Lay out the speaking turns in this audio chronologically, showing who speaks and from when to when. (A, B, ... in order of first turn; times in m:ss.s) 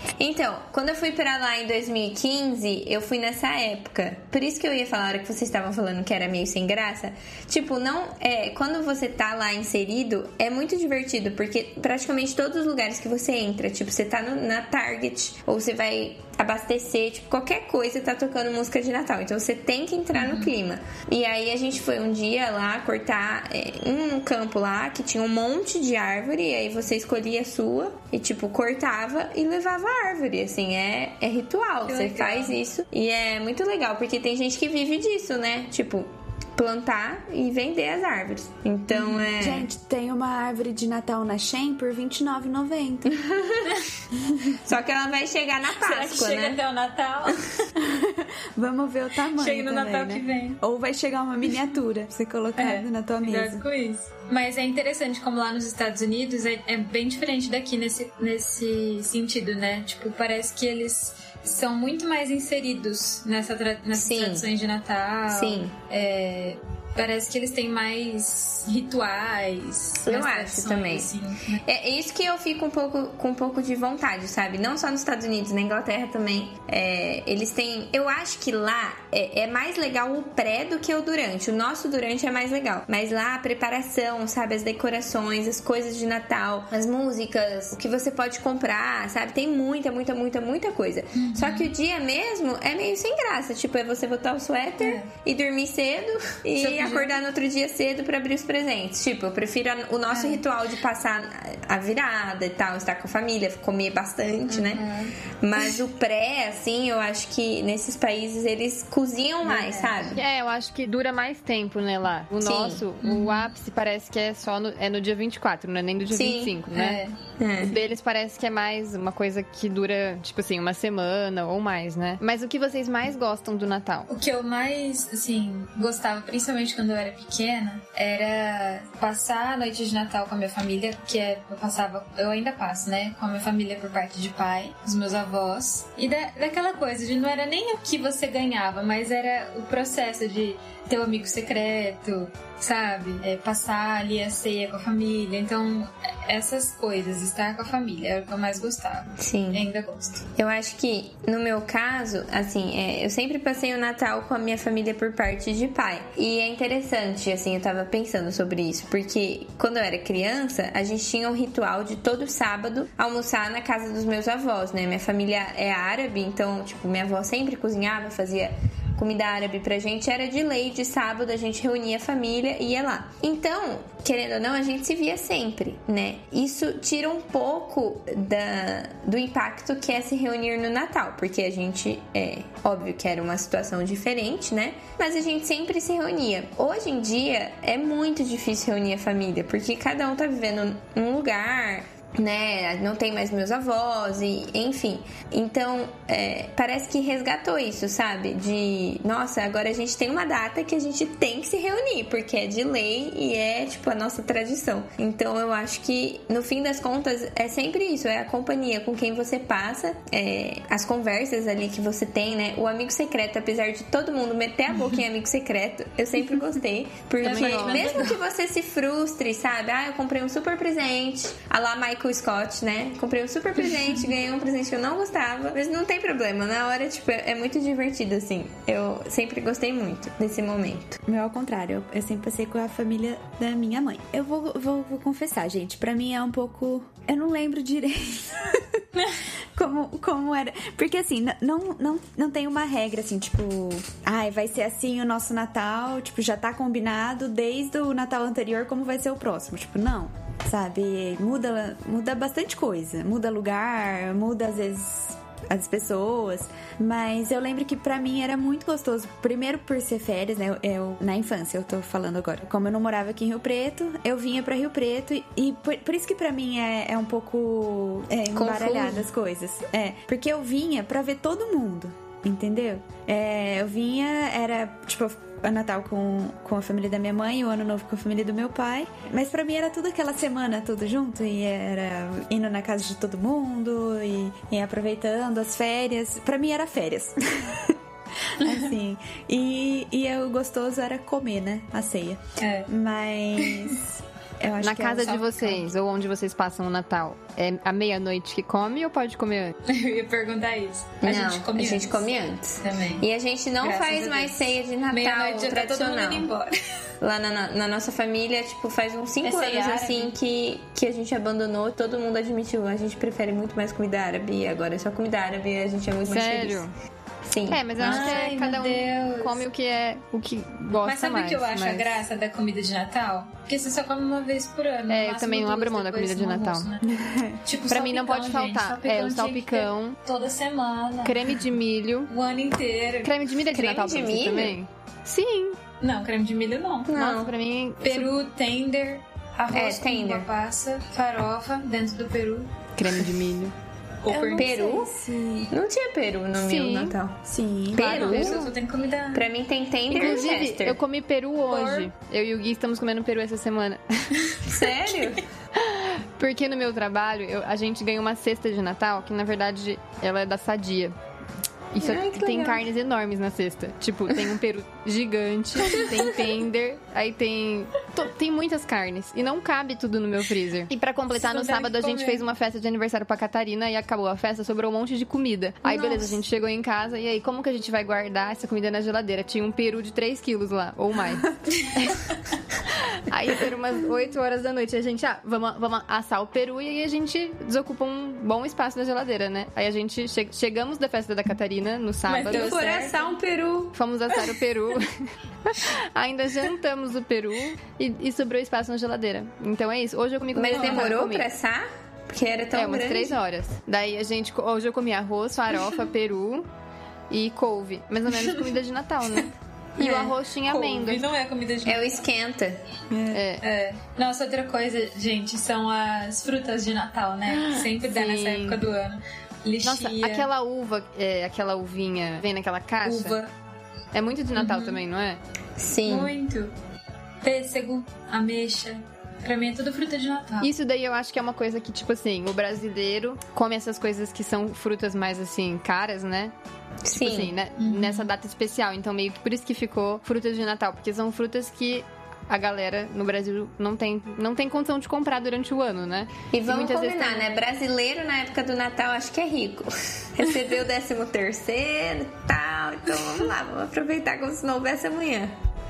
0:00.2-0:39.7 A
0:20.1-0:20.5 B
0:31.8-0:32.6 B
0:38.9-0:39.2 B
0:39.3-0:43.2 C
0:43.1-0:43.8 A
0:44.1-0:44.6 C
0:44.5-0:46.6 A
0:45.7-0:47.7 B
0:47.8-0:53.6 C
0:49.4-0:50.6 B
0:52.6-1:11.6 B
1:04.0-1:04.4 A
1:05.3-1:05.7 A
1:10.0-1:11.1 A
1:11.6-1:44.8 A
1:31.1-1:31.7 B
1:34.8-1:35.1 B
1:36.6-1:37.2 B
1:40.1-1:40.4 B
1:44.5-1:45.2 B
1:45.4-1:50.2 A
1:49.4-1:50.2 B
1:50.2-1:57.0 D
1:52.4-1:52.8 A
1:53.0-1:53.5 B
1:56.1-1:56.6 A
1:56.7-1:57.2 B
1:57.4-1:57.8 A
1:57.6-2:04.1 D
2:04.1-2:30.3 B
2:29.2-2:29.6 A
2:30.4-3:51.0 A
3:37.2-3:38.2 B
3:37.2-3:38.1 D
3:51.1-3:58.8 C
3:59.6-4:47.8 C
4:28.3-4:29.0 A
4:48.3-4:55.6 C
4:48.4-4:48.7 B
4:52.4-4:52.7 B
4:53.4-4:53.8 B
4:54.6-4:59.6 D
4:59.7-5:03.1 B
5:01.0-5:06.3 A
5:03.6-5:06.5 B
5:07.0-5:16.6 A
5:09.2-5:10.2 B
5:16.0-5:16.7 D
5:17.2-5:18.2 A
5:17.5-5:22.0 D
5:17.8-5:19.4 B
5:20.8-5:31.3 B
5:24.9-5:26.7 D
5:26.8-5:27.4 C
5:27.7-5:30.0 D
5:31.0-5:32.1 D
5:32.1-5:33.2 B
5:33.0-5:35.6 D
5:33.4-5:34.6 A
5:35.8-5:36.9 B
5:36.9-5:37.3 A
5:36.9-5:38.1 D
5:37.8-5:42.5 B
5:39.5-5:40.3 A
5:42.8-5:43.5 D
5:44.0-5:44.6 B
5:44.1-5:45.5 C
5:44.3-5:44.9 A
5:45.5-5:48.5 A
5:46.4-5:47.0 D
5:47.3-5:48.0 C
5:47.8-5:48.5 D
5:47.8-5:49.3 B
5:49.1-5:50.8 A
5:49.9-5:54.3 D
5:51.5-5:51.9 B
5:54.4-5:55.2 A
5:55.6-6:01.0 D
6:01.7-6:22.0 D
6:01.8-6:02.6 A
6:11.1-6:12.2 B
6:15.6-6:16.2 B
6:22.7-6:32.6 D
6:32.1-6:33.2 B
6:32.2-6:33.8 A
6:33.7-6:41.3 D
6:40.4-6:43.2 A
6:40.5-6:41.0 B
6:42.5-6:46.5 D
6:47.1-6:51.0 D
6:48.1-6:48.5 B
6:49.8-6:52.0 B
6:51.6-6:52.6 A
6:52.9-6:53.2 C
6:53.1-6:53.4 D
6:53.4-7:00.3 B
6:57.3-6:58.6 D
6:59.6-7:03.2 D
7:02.8-7:03.3 B
7:03.9-7:05.2 D
7:04.4-7:04.8 B
7:05.6-7:06.1 A
7:05.8-7:06.5 B
7:07.2-7:10.5 B
7:10.4-7:16.3 D
7:16.8-7:17.3 A
7:16.9-7:27.3 D
7:17.6-7:18.1 B
7:26.3-7:35.3 A